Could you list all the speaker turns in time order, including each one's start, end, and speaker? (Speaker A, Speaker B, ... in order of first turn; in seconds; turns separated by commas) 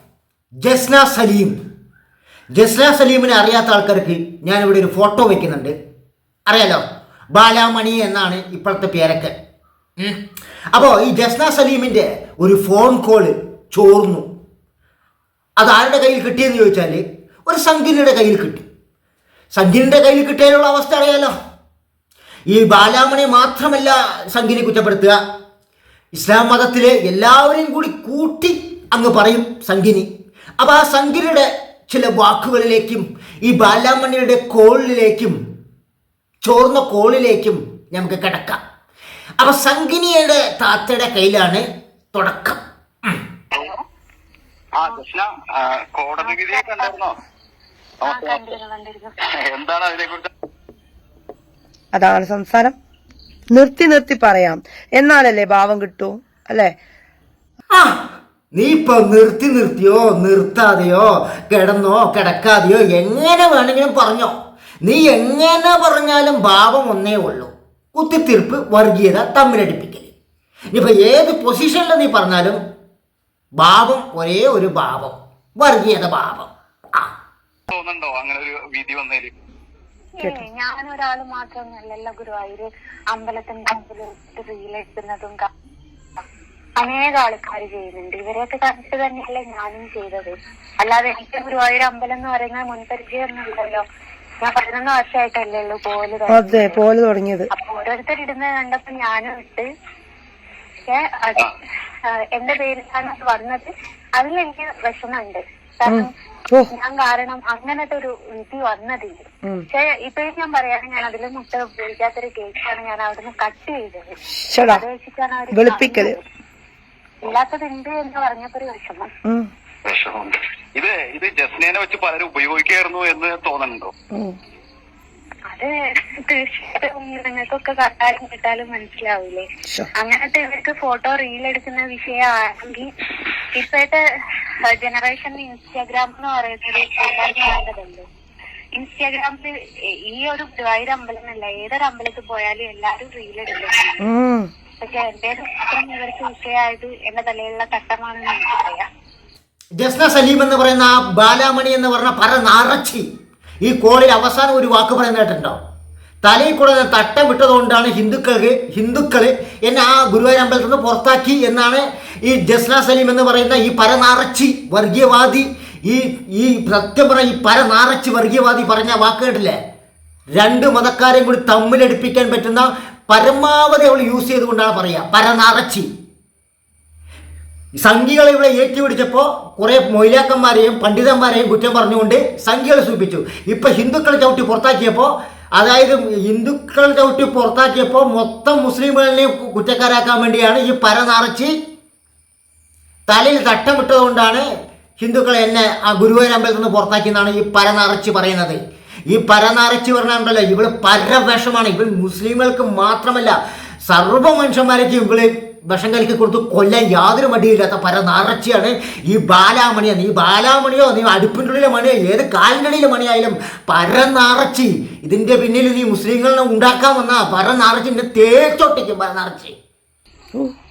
Speaker A: 0.6-1.6, Speaker A: 2.6-5.7, Speaker A: 6.5-6.8, Speaker A: 7.3-9.3, Speaker A: 10.7-14.3, Speaker A: 15.6-18.6, Speaker A: 19.6-21.3, Speaker A: 22.5-25.2, Speaker A: 26.1-30.1, Speaker A: 30.6-35.4, Speaker A: 36.4-38.6, Speaker A: 39.4-42.6, Speaker B: 43.5-43.8, Speaker C: 44.8-47.2, Speaker B: 46.2-47.0, Speaker C: 48.0-48.5, Speaker B: 48.0-49.1, Speaker C: 49.4-50.3, Speaker D: 51.9-52.8, Speaker D: 53.5-56.7, Speaker A: 57.7-58.0, Speaker A: 58.5-70.1, Speaker A: 70.7-72.6, Speaker A: 73.6-77.1, Speaker C: 77.7-79.3, Speaker B: 80.2-85.5, Speaker B: 86.8-93.8, Speaker B: 94.4-96.8, Speaker D: 96.3-97.5, Speaker B: 97.5-99.7, Speaker B: 100.9-101.5, Speaker B: 102.1-106.1, Speaker D: 105.9-106.7, Speaker B: 106.7-114.1, Speaker D: 114.3-114.8, Speaker B: 114.7-116.2, Speaker D: 115.5-116.2, Speaker B: 117.2-119.1, Speaker C: 119.8-123.9, Speaker B: 125.5-129.4, Speaker B: 130.0-132.9, Speaker B: 133.5-134.0, Speaker B: 134.7-138.1, Speaker B: 138.8-139.5, Speaker B: 140.1-144.0, Speaker D: 144.0-144.5, Speaker B: 144.8-148.9, Speaker A: 149.8-153.1, Speaker A: 153.6-155.6, Speaker A: 156.2-169.6, Speaker A: 170.4-175.9, Speaker A: 177.8-191.5, Speaker A: 193.1-194.5, Speaker A: 195.0-219.6